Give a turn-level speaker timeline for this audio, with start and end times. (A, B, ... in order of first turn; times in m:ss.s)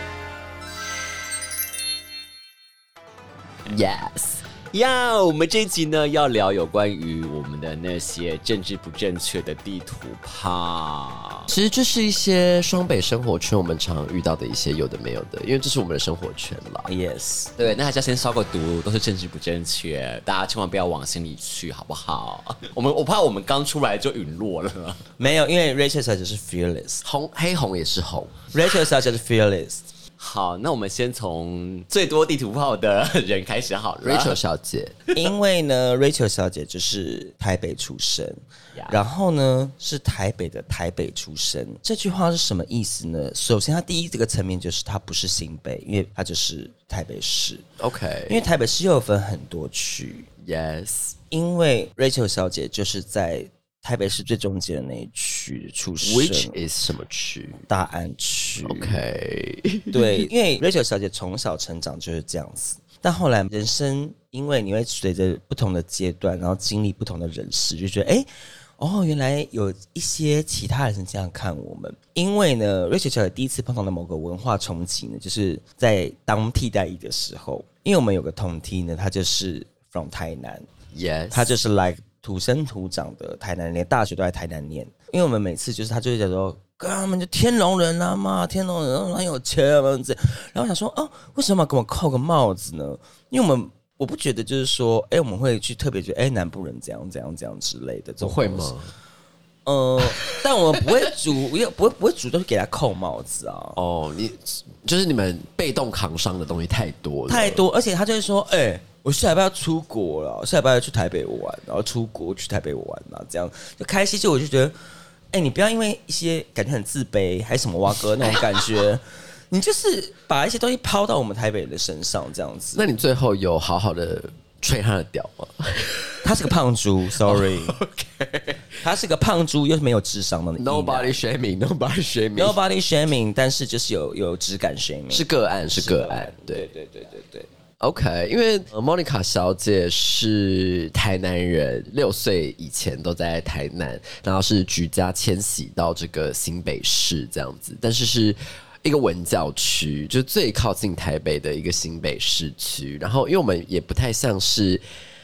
0:03.6-0:04.4 A
0:04.7-0:11.5 B
0:11.5-0:16.9 A
0:16.8-0:17.5 C
0:17.6-0:25.0 B
0:25.2-0:27.0 C
0:27.0-0:28.4 A
0:28.5-0:29.8 C
0:30.2-0:34.4 B
0:34.0-0:35.0 A
0:35.1-0:47.6 C
0:47.8-0:48.4 A
0:48.3-0:50.3 C
0:50.4-0:51.2 A
0:51.3-0:56.6 C
0:56.0-0:57.6 A
0:57.7-0:59.0 C
0:58.6-1:00.3 A
0:59.9-1:08.3 C
1:08.8-1:20.7 C
1:20.9-1:21.5 A
1:21.3-1:38.7 C
1:38.2-1:38.9 A
1:39.6-1:43.8 C
1:40.0-1:41.1 A
1:43.8-1:47.6 A
1:47.3-1:54.7 C
1:55.3-2:02.8 C
2:02.7-2:06.4 A
2:06.2-2:07.8 C
2:07.2-2:08.8 A
2:08.8-2:11.1 C
2:10.6-2:12.6 A
2:12.4-2:17.5 C
2:15.1-2:16.6 A
2:17.8-2:34.8 A